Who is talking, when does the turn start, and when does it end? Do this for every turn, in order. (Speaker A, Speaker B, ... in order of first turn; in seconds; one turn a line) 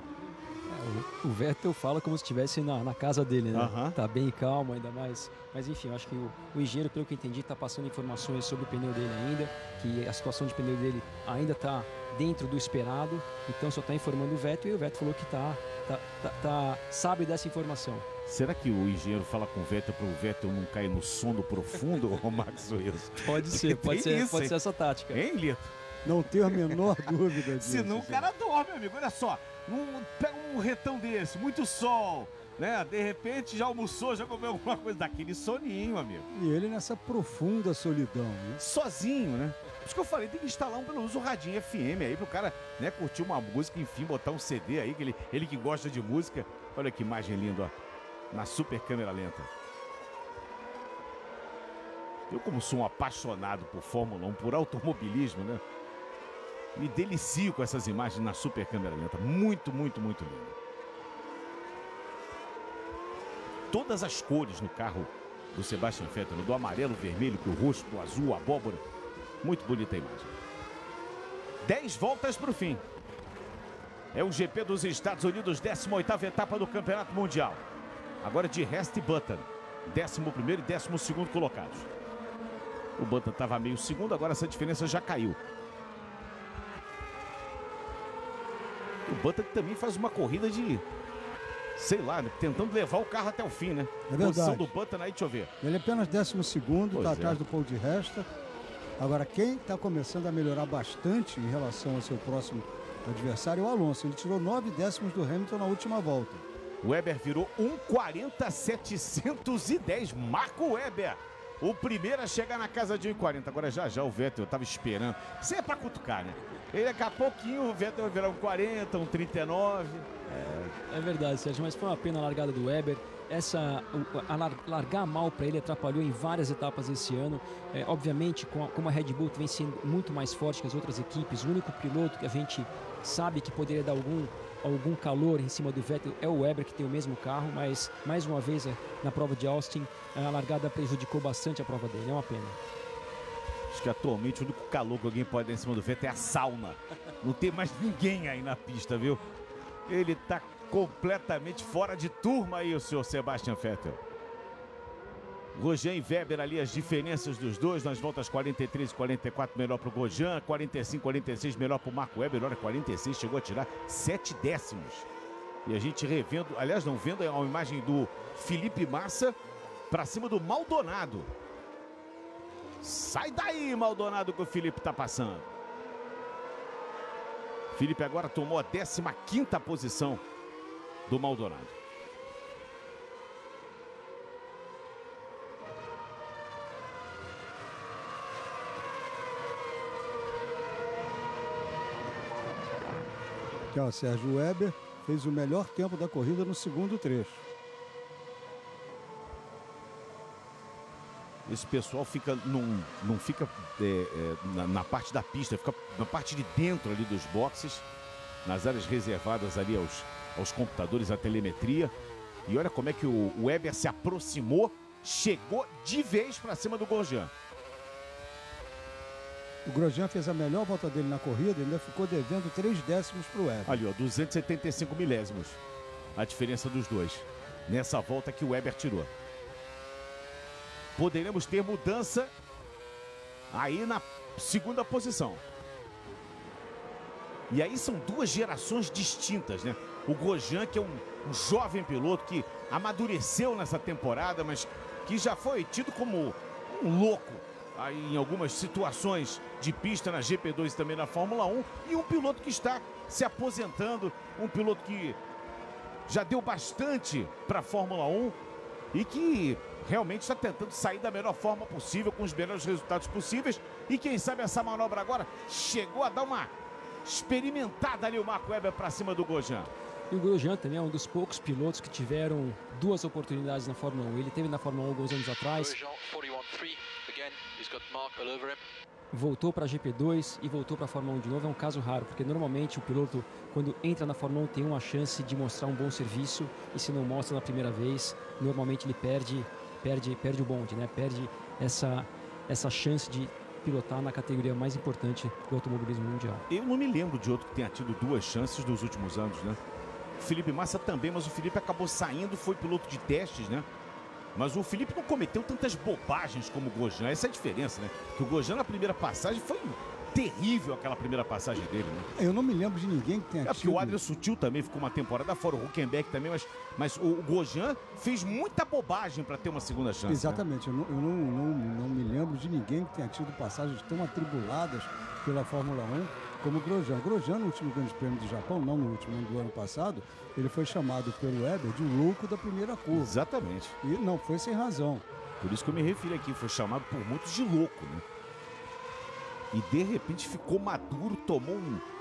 Speaker A: 0.7-18.1
Speaker B: 3.5-3.9
Speaker B: 18.3-24.6
Speaker A: 23.2-25.2
Speaker B: 25.1-25.7
Speaker C: 26.0-28.3
Speaker B: 26.4-36.3
Speaker C: 36.3-38.6
Speaker B: 38.6-47.7
Speaker B: 48.3-49.5
Speaker B: 52.3-55.6
Speaker B: 56.7-60.5
Speaker B: 63.7-68.8
Speaker B: 69.4-70.3
Speaker B: 71.6-72.8
Speaker B: 74.1-77.6
Speaker B: 78.2-81.9
Speaker B: 83.0-85.4
Speaker B: 89.1-90.8
Speaker B: 91.8-95.5
Speaker C: 94.1-94.7
Speaker C: 95.6-98.3
Speaker B: 96.9-97.4
Speaker C: 99.0-106.5
Speaker B: 106.8-120.7
Speaker A: 120.9-142.6
Speaker B: 143.7-149.2
Speaker B: 149.9-154.0
Speaker B: 155.5-165.1
Speaker B: 165.7-169.3
Speaker B: 169.9-171.3
Speaker B: 172.8-175.4
Speaker B: 177.7-180.2
Speaker B: 181.1-181.7
Speaker C: 193.7-197.4
Speaker B: 201.4-207.8
Speaker B: 208.4-211.9
Speaker B: 212.5-217.3
Speaker C: 219.7-223.8
Speaker B: 223.6-225.6
Speaker B: 226.2-229.1
Speaker B: 231.0-232.3
Speaker B: 233.5-235.4
Speaker B: 237.5-255.2
Speaker B: 256.1-258.4
Speaker B: 258.9-266.5
Speaker B: 267.0-269.7
Speaker A: 270.1-275.8
Speaker D: 275.5-278.6
Speaker A: 279.1-296.4
Speaker B: 296.5-299.6
Speaker B: 300.2-303.6
Speaker B: 304.3-312.1
Speaker C: 312.2-314.0
Speaker B: 313.4-320.4
Speaker C: 320.1-333.1
Speaker B: 332.9-333.7
Speaker C: 333.8-335.1
Speaker B: 335.4-338.0
Speaker B: 339.5-341.8